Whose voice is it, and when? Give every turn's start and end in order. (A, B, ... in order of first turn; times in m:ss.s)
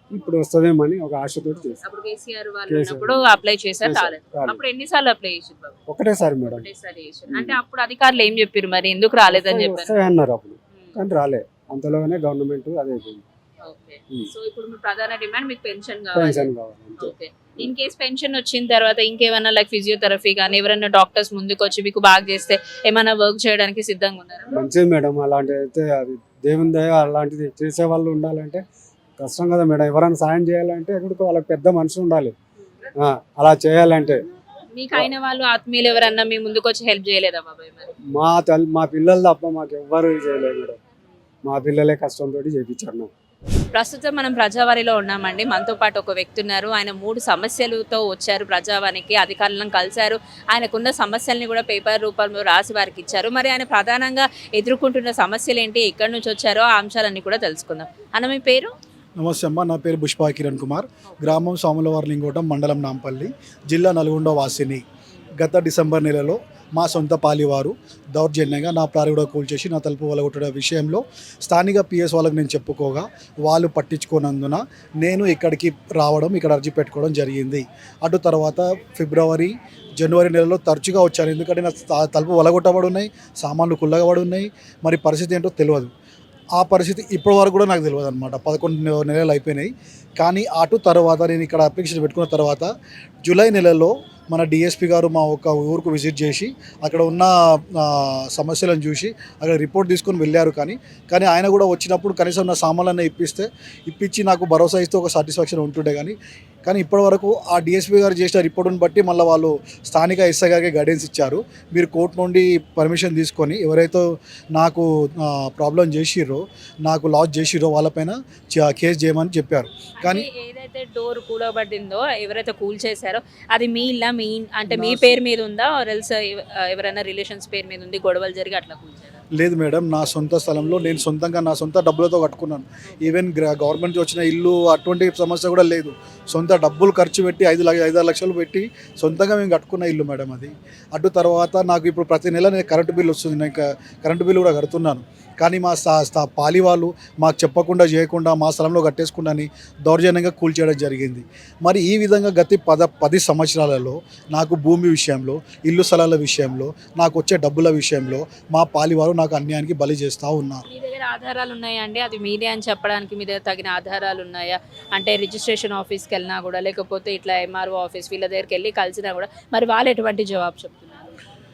0:00.1-0:01.8 A
0:01.8-0:05.8 B
0:02.7-0:03.3 A
0:03.8-0:04.6 A
0:05.9-0:06.7 A
0:06.5-0:10.0 B
0:07.3-0:07.6 A
0:09.3-0:13.2 A
0:13.6-0:16.5 B
0:16.1-0:17.1 A
0:17.0-0:24.6 B
0:24.5-0:28.6 A
0:29.2-0:32.4 A
0:33.0-0:34.2 A
0:34.8-0:37.9 B
0:38.1-0:40.8 A
0:41.4-0:43.1 A
0:43.7-0:58.7 B
0:59.2-1:04.8 C
1:05.4-1:25.9 C
1:26.6-1:32.7 C
1:33.2-2:00.3 C
2:00.0-2:09.2 B
2:04.7-2:05.2 C
2:09.4-2:40.6 C
2:40.7-2:51.2 B